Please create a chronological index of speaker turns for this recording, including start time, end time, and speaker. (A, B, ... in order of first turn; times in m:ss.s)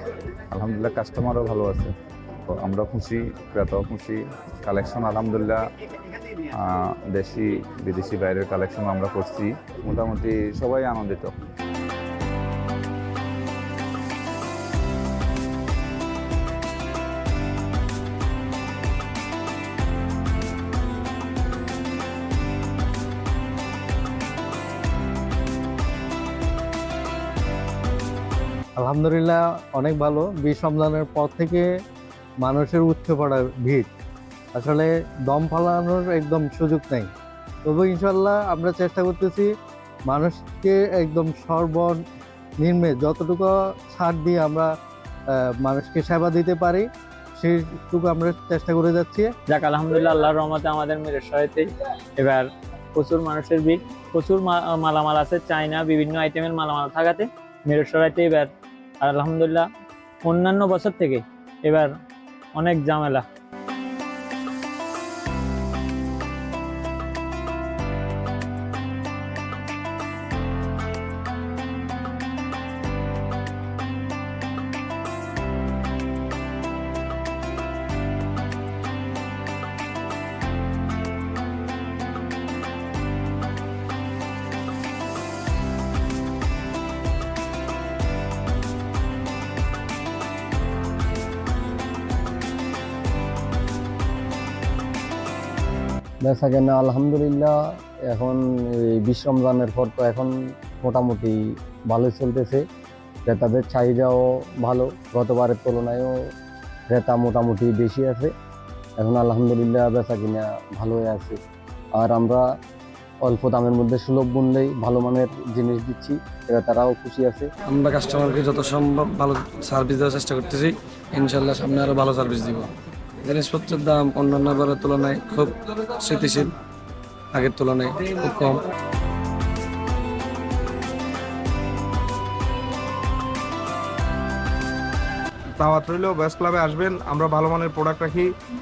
0:00.5-0:01.9 A
0:02.5-0:05.7 A
0:06.3-0:11.3 A
0:28.8-0:31.7 B
0:32.4-0:33.9 B
0:34.5-0:37.1 B
0:37.6-0:39.5 B
0:40.0-0:42.0 B
0:42.6-0:44.7 B
0:45.3-0:49.3 B
0:49.5-0:58.5 C
0:59.0-0:59.7 C
1:00.2-1:01.9 C
1:02.5-1:03.2 C
1:36.2-1:42.6 D
1:43.2-1:46.3 D
1:46.9-1:48.3 D
1:49.0-1:51.4 D
1:52.0-1:52.4 D
1:53.2-1:57.5 D
1:57.6-2:02.7 E
2:03.2-2:06.5 E
2:07.3-2:08.6 E
2:15.6-2:18.3 F